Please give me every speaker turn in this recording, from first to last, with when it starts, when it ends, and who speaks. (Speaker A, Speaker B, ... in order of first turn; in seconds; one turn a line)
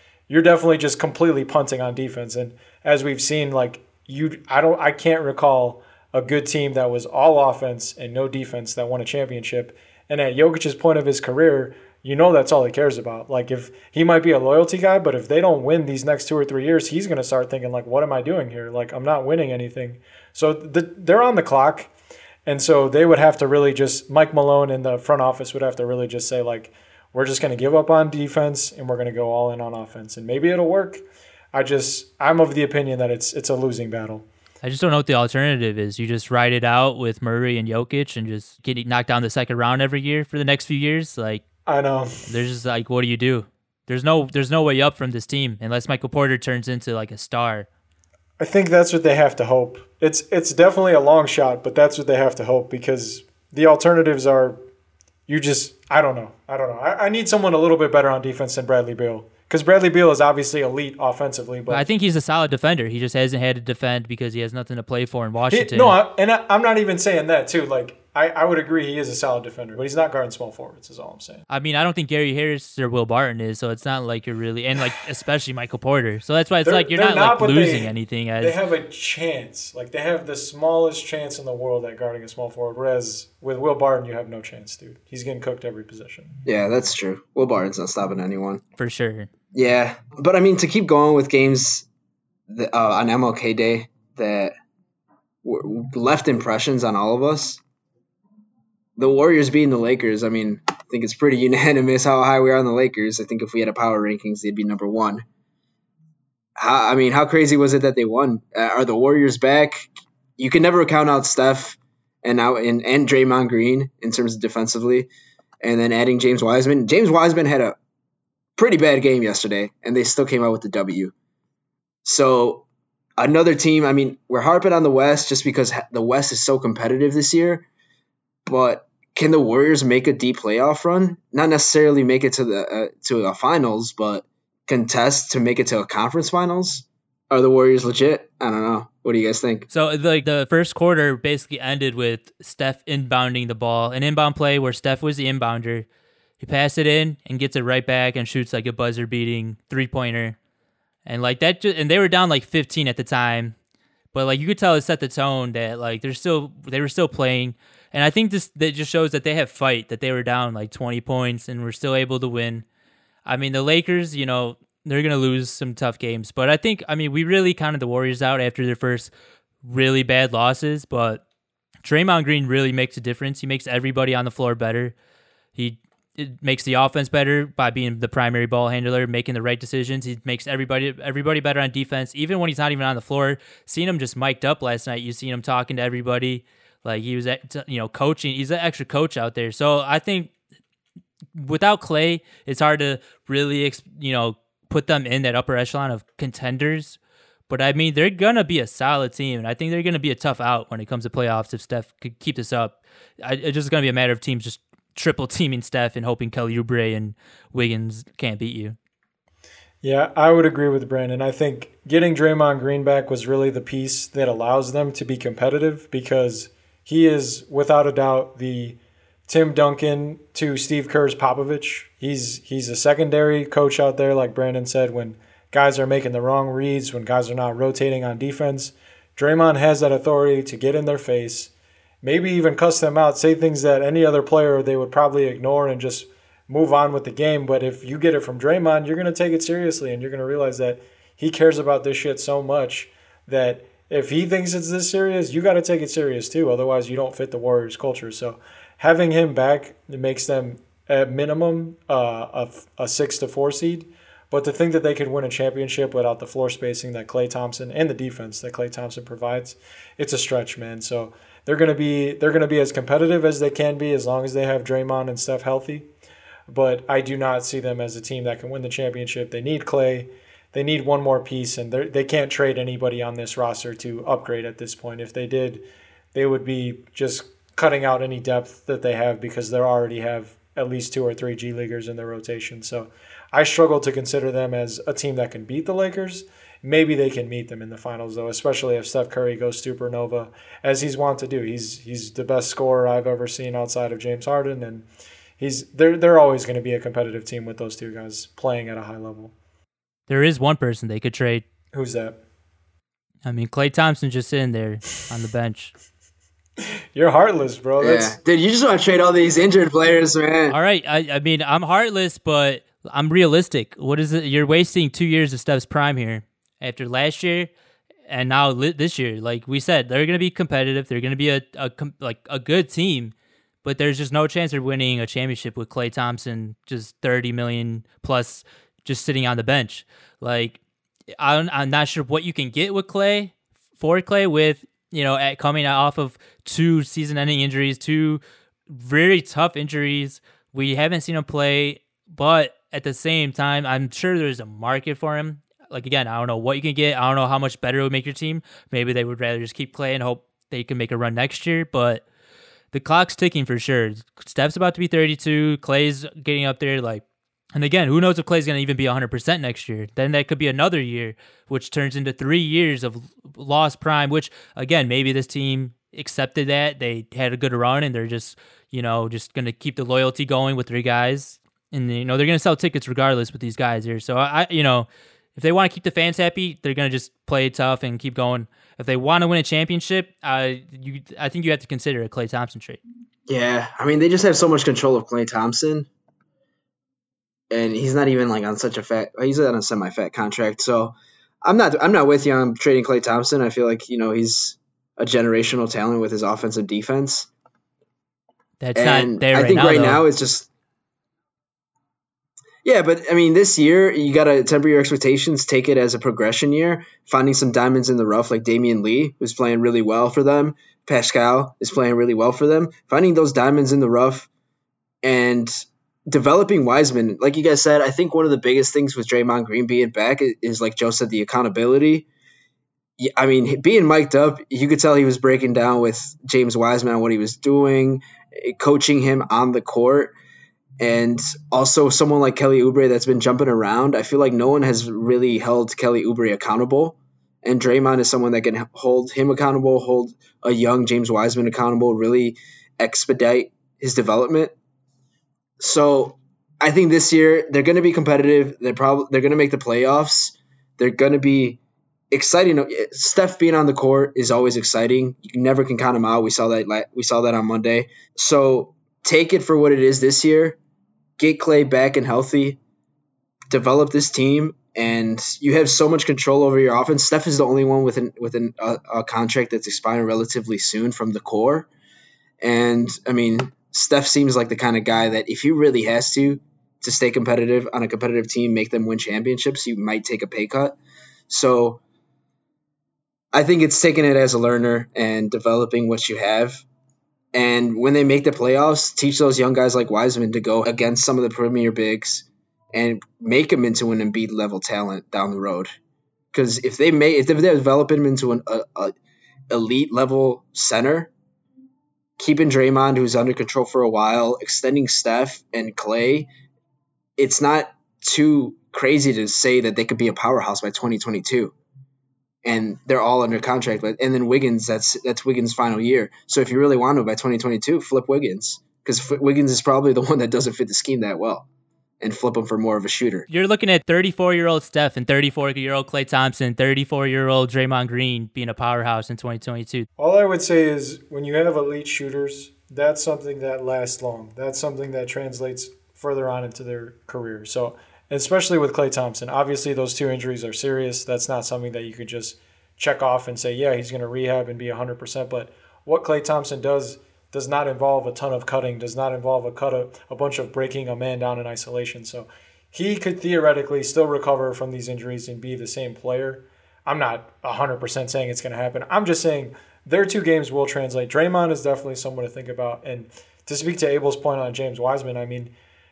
Speaker A: 0.3-21.9
Speaker A: 22.4-34.2
Speaker B: 34.6-41.4
Speaker A: 41.7-42.3
Speaker B: 42.3-47.7
Speaker A: 48.4-54.6
Speaker A: 55.3-61.9
Speaker B: 61.7-66.0
Speaker A: 65.5-71.4
Speaker B: 71.5-78.6
Speaker A: 76.6-86.3
Speaker C: 86.4-88.6
Speaker B: 88.8-89.3
Speaker C: 89.5-91.9
Speaker C: 92.5-94.5
Speaker C: 95.4-97.6
Speaker C: 99.0-105.2
Speaker C: 106.6-115.1
Speaker C: 115.6-117.8
Speaker C: 118.5-121.1
Speaker C: 122.0-122.7
Speaker C: 123.2-127.7
Speaker C: 128.5-139.7
Speaker B: 139.7-145.9
Speaker B: 146.4-150.4
Speaker B: 151.1-153.5
Speaker B: 154.1-162.6
Speaker B: 163.2-169.1
Speaker B: 169.6-171.2
Speaker B: 171.8-174.9
Speaker B: 175.5-190.3
Speaker B: 191.3-197.0
Speaker B: 197.5-208.8
Speaker A: 209.8-231.5
Speaker A: 232.0-265.9
Speaker A: 266.5-294.9
Speaker A: 295.4-299.3
Speaker B: 300.1-301.4
Speaker A: 301.7-302.2
Speaker B: 303.2-305.7
Speaker A: 306.9-308.2
Speaker C: 307.8-310.6
Speaker B: 310.5-317.5
Speaker B: 318.1-330.6
Speaker B: 331.2-352.0
Speaker B: 352.7-357.0
Speaker B: 357.5-382.8
Speaker C: 383.3-385.9
Speaker C: 387.5-397.3
Speaker B: 398.6-400.0
Speaker C: 398.7-400.5
Speaker C: 402.6-414.3
Speaker C: 415.0-422.1
Speaker C: 423.0-430.1
Speaker C: 430.8-444.5
Speaker C: 445.6-451.6
Speaker C: 452.1-460.6
Speaker C: 461.2-462.6
Speaker C: 463.5-471.7
Speaker C: 472.4-480.8
Speaker C: 481.3-481.8
Speaker C: 483.3-486.6
Speaker C: 487.3-495.7
Speaker C: 496.3-498.9
Speaker C: 499.5-501.1
Speaker C: 502.2-506.3
Speaker C: 507.2-511.5
Speaker C: 512.4-521.5
Speaker C: 522.0-523.2
Speaker B: 523.3-529.9
Speaker A: 530.0-565.5